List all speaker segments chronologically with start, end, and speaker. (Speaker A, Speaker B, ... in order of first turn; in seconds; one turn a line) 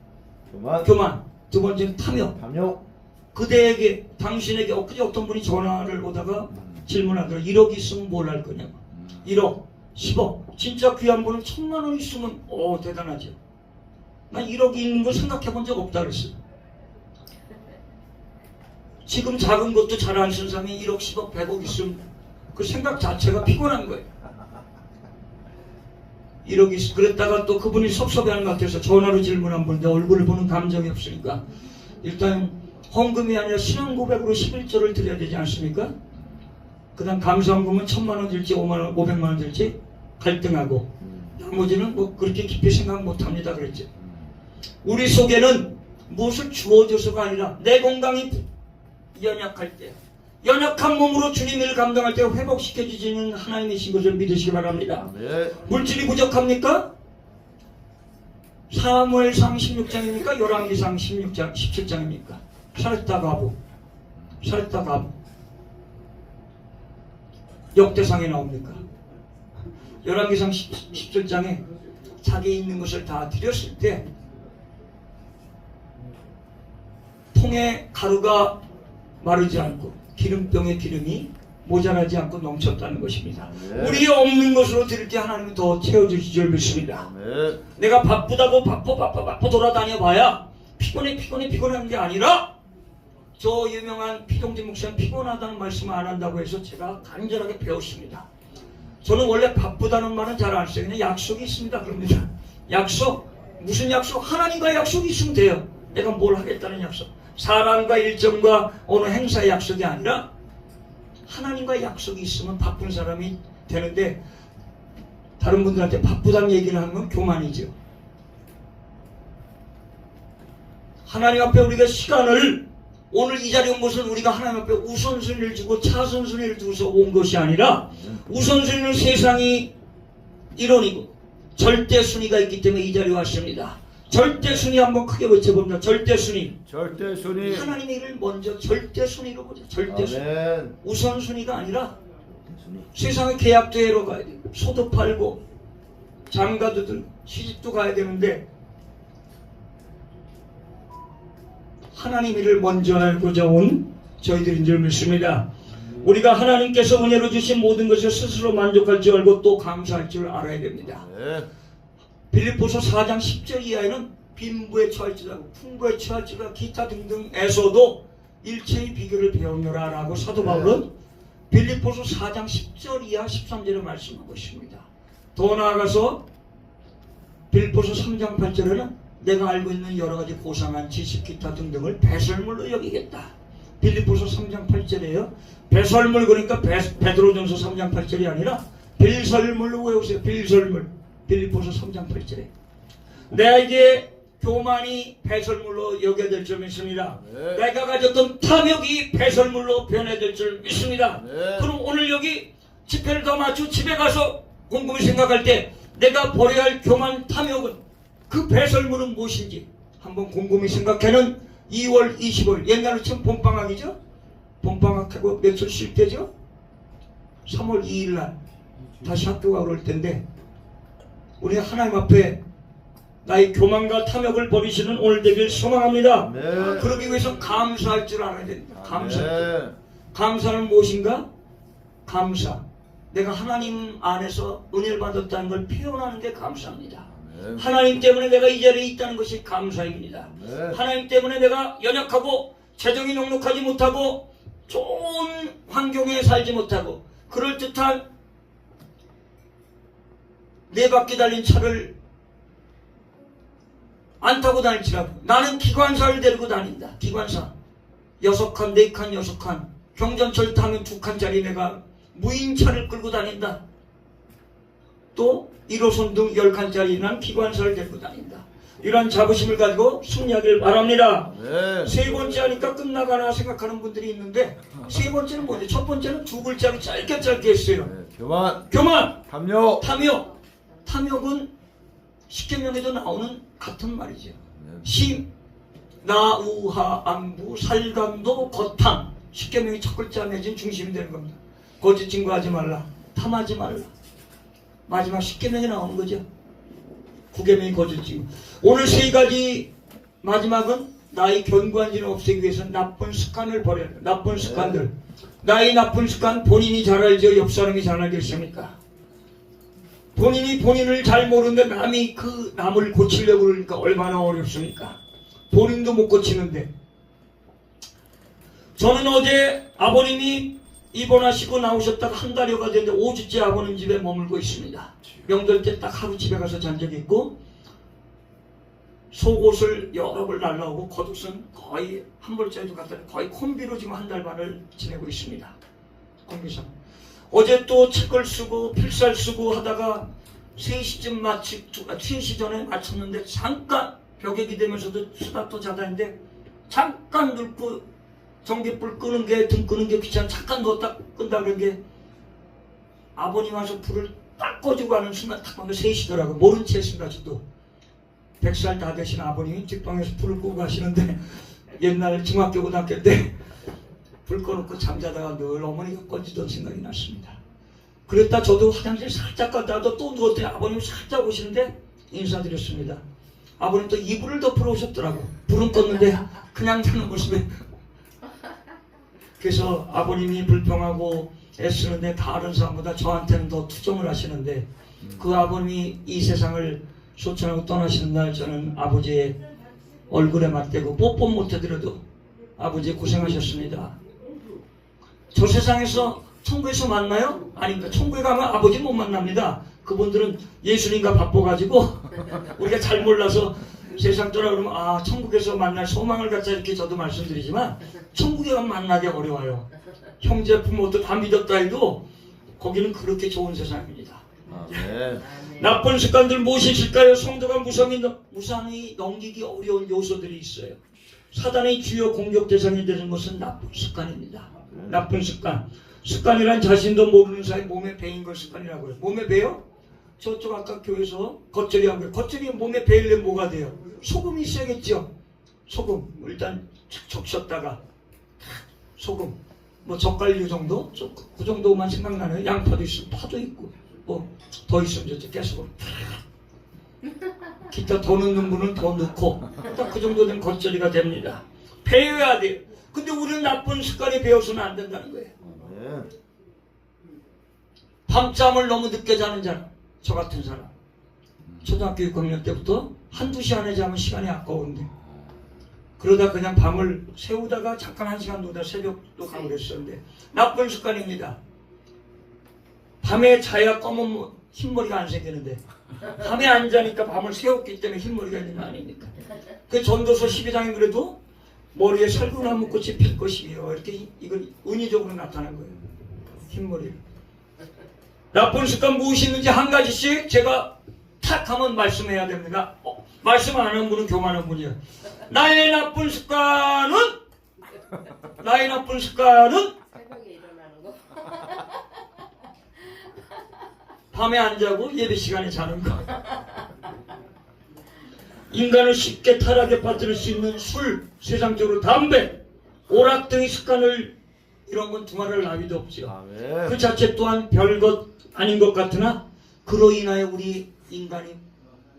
Speaker A: 0.5-0.9
Speaker B: 0.8-2.4
Speaker A: 2.4-2.8
Speaker B: 3.3-13.4
Speaker A: 8.9-9.2
Speaker B: 14.3-16.3
Speaker B: 19.0-22.0
Speaker B: 22.5-24.1
Speaker B: 26.4-31.4
Speaker B: 32.0-35.9
Speaker B: 37.0-43.9
Speaker A: 41.0-41.4
Speaker A: 44.0-44.3
Speaker B: 44.8-48.5
Speaker B: 49.1-55.1
Speaker A: 55.0-55.8
Speaker B: 55.6-56.9
Speaker B: 58.7-63.5
Speaker B: 64.4-65.1
Speaker B: 67.7-68.8
Speaker B: 70.0-71.6
Speaker B: 72.2-74.0
Speaker B: 77.3-78.6
Speaker B: 79.2-87.0
Speaker A: 83.4-84.0
Speaker A: 87.0-87.6
Speaker B: 87.8-92.5
Speaker B: 93.4-98.3
Speaker B: 99.0-110.3
Speaker B: 111.2-114.2
Speaker B: 115.4-117.7
Speaker B: 121.0-129.7
Speaker B: 130.5-136.6
Speaker A: 134.2-134.6
Speaker A: 136.7-137.7
Speaker B: 137.4-140.2
Speaker A: 139.9-140.8
Speaker B: 140.8-141.9
Speaker A: 142.3-142.9
Speaker B: 142.9-145.4
Speaker B: 146.3-148.4
Speaker B: 151.9-161.0
Speaker A: 160.9-161.5
Speaker B: 162.3-170.9
Speaker A: 170.3-170.8
Speaker B: 171.5-176.2
Speaker B: 177.5-192.5
Speaker B: 193.3-213.9
Speaker A: 197.2-197.6
Speaker A: 201.1-201.7
Speaker B: 214.6-216.3
Speaker B: 217.4-218.4
Speaker B: 219.0-220.2
Speaker B: 221.4-222.4
Speaker B: 223.2-229.5
Speaker A: 226.2-227.0
Speaker A: 228.8-229.8
Speaker B: 230.1-231.2
Speaker B: 232.1-248.0
Speaker A: 237.1-237.6
Speaker A: 240.3-240.8
Speaker B: 250.7-251.9
Speaker B: 254.2-257.5
Speaker B: 258.2-263.6
Speaker B: 265.1-271.3
Speaker A: 271.2-272.0
Speaker B: 271.8-277.9
Speaker A: 277.8-278.7
Speaker B: 278.7-279.2
Speaker A: 279.2-279.9
Speaker B: 279.8-280.3
Speaker B: 280.9-281.5
Speaker B: 282.3-285.3
Speaker A: 284.4-284.9
Speaker B: 286.0-293.9
Speaker B: 294.9-296.2
Speaker B: 297.3-299.7
Speaker B: 300.2-308.8
Speaker A: 304.4-304.8
Speaker B: 310.1-315.0
Speaker B: 315.5-316.7
Speaker B: 318.8-327.4
Speaker B: 329.1-335.6
Speaker B: 336.2-336.7
Speaker B: 337.3-346.1
Speaker B: 346.7-347.8
Speaker B: 348.4-351.8
Speaker B: 353.1-357.4
Speaker B: 358.4-363.4
Speaker B: 364.2-367.4
Speaker B: 368.1-373.0
Speaker B: 373.6-377.6
Speaker B: 379.4-389.4
Speaker A: 385.0-385.4
Speaker B: 390.1-392.0
Speaker B: 392.6-394.0
Speaker B: 395.3-409.7
Speaker B: 410.2-412.1
Speaker B: 412.6-414.2
Speaker A: 414.5-415.3
Speaker C: 415.2-415.7
Speaker B: 415.6-420.8
Speaker B: 421.3-429.6
Speaker A: 424.6-425.0
Speaker B: 430.2-435.1
Speaker B: 435.7-437.8
Speaker B: 439.0-446.2
Speaker B: 447.7-455.3
Speaker A: 455.4-456.1
Speaker B: 458.1-460.7
Speaker B: 461.6-464.9
Speaker A: 465.1-465.3
Speaker B: 466.0-471.4
Speaker B: 473.0-479.1
Speaker B: 479.7-481.2
Speaker B: 481.7-485.8
Speaker B: 486.4-487.0
Speaker B: 488.3-497.1
Speaker B: 498.4-499.7
Speaker C: 499.9-501.7
Speaker B: 504.1-506.1
Speaker B: 508.5-514.1
Speaker B: 514.7-521.4
Speaker A: 516.0-516.8